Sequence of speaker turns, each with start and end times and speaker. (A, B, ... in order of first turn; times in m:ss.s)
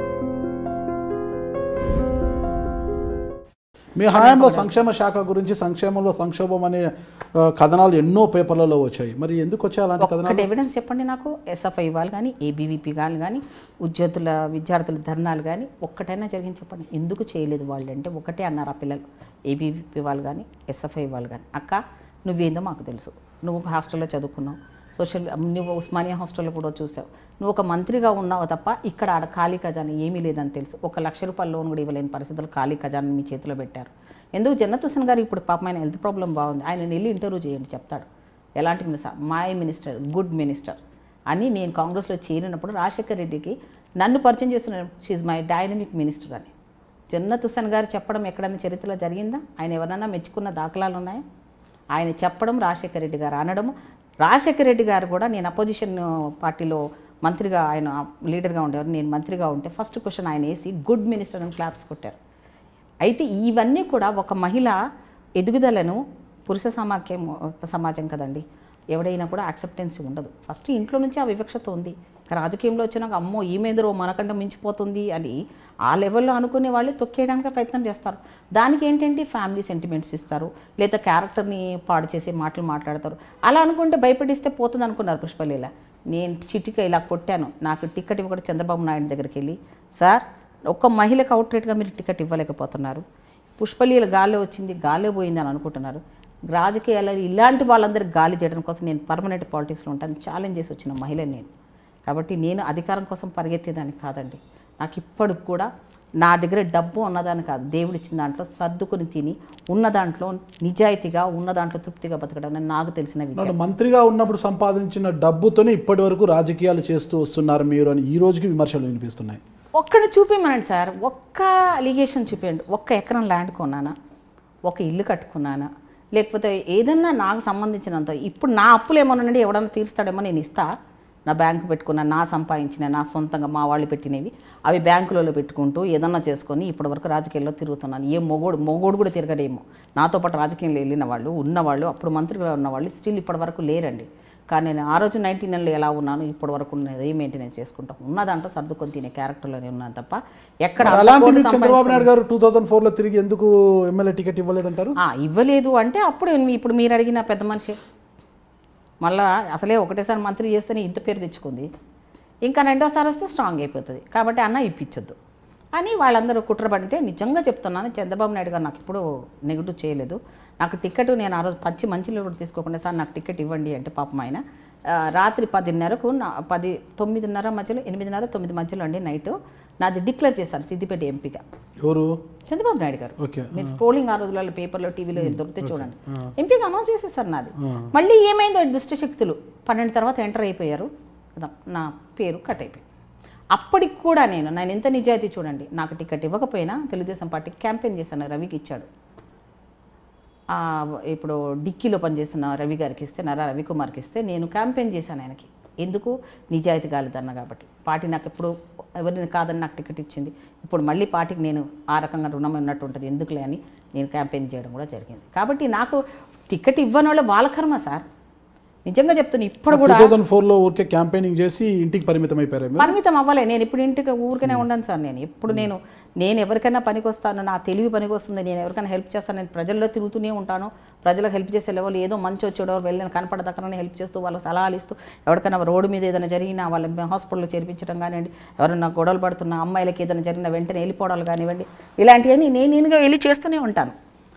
0:04.0-0:10.5 A
0:04.1-0:04.7 B
0:10.0-0:38.1 B
0:38.6-0:40.8 B
0:41.3-0:46.5 B
0:47.1-0:51.2 B
0:51.9-1:02.2 B
1:03.0-1:04.8 B
1:05.4-1:15.4 B
1:15.9-1:33.0 B
1:33.6-1:36.0 B
1:36.5-1:41.5 B
1:42.1-1:45.7 B
1:46.2-1:53.5 B
1:53.4-1:59.4 A
1:59.8-2:03.9 B
2:04.7-2:10.7 B
2:11.3-2:32.1 B
2:30.8-2:34.9 A
2:35.0-2:37.8 B
2:39.0-2:41.7 B
2:42.4-2:45.2 B
2:45.8-3:01.4 B
3:01.8-3:02.2 A
3:02.5-3:12.8 B
3:03.2-3:03.8 A
3:05.2-3:06.3 A
3:07.6-3:07.9 A
3:13.5-3:18.9 B
3:20.5-3:38.0 B
3:38.8-3:40.1 B
3:39.7-3:42.9 A
3:42.8-4:04.0 B